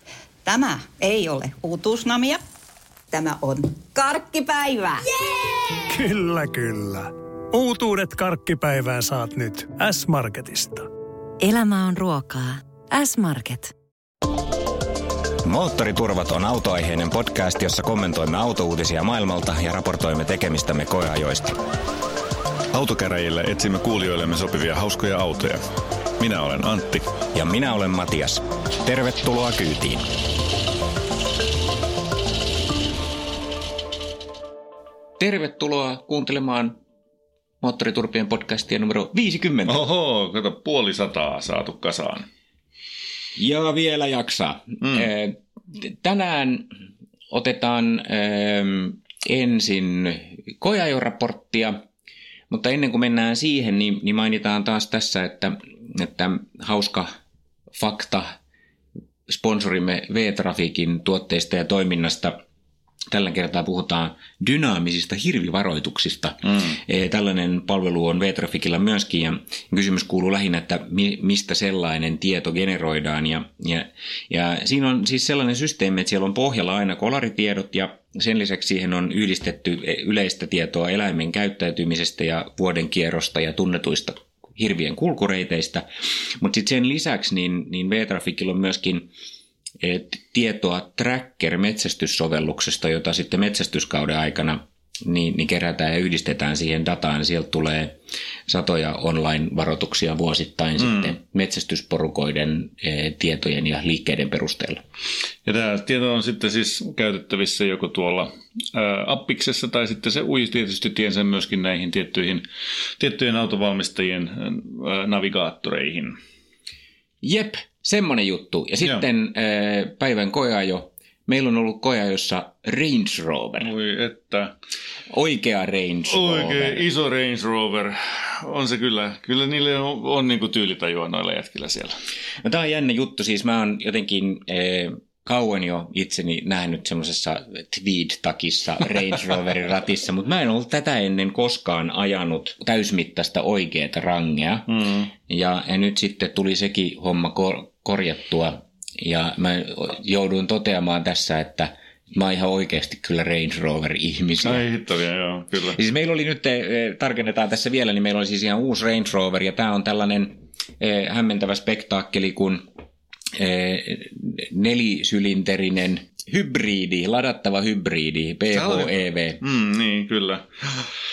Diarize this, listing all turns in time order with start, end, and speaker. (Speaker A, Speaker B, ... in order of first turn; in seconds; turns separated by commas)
Speaker A: 0.5-2.4, Speaker A: 3.1-5.8, Speaker B: 5.9-10.9, Speaker C: 11.4-13.7, Speaker D: 15.4-21.6, Speaker E: 22.7-25.6, Speaker E: 26.2-27.1, Speaker D: 27.3-30.1, Speaker D: 35.2-36.8, Speaker D: 37.6-39.8, Speaker E: 39.7-42.3, Speaker D: 43.4-46.7, Speaker D: 47.3-51.8, Speaker D: 52.5-57.1, Speaker D: 57.7-58.4, Speaker D: 59.3-62.4, Speaker D: 63.1-85.8, Speaker D: 86.4-89.1, Speaker D: 89.8-104.8, Speaker E: 100.9-101.1, Speaker E: 105.5-112.5, Speaker E: 113.0-116.1, Speaker D: 117.2-123.7, Speaker E: 123.6-124.5, Speaker D: 125.1-126.9, Speaker E: 126.1-131.9, Speaker D: 132.4-154.7, Speaker E: 144.7-145.1, Speaker E: 154.4-155.8, Speaker D: 155.7-162.7, Speaker D: 163.3-169.4, Speaker E: 168.5-170.9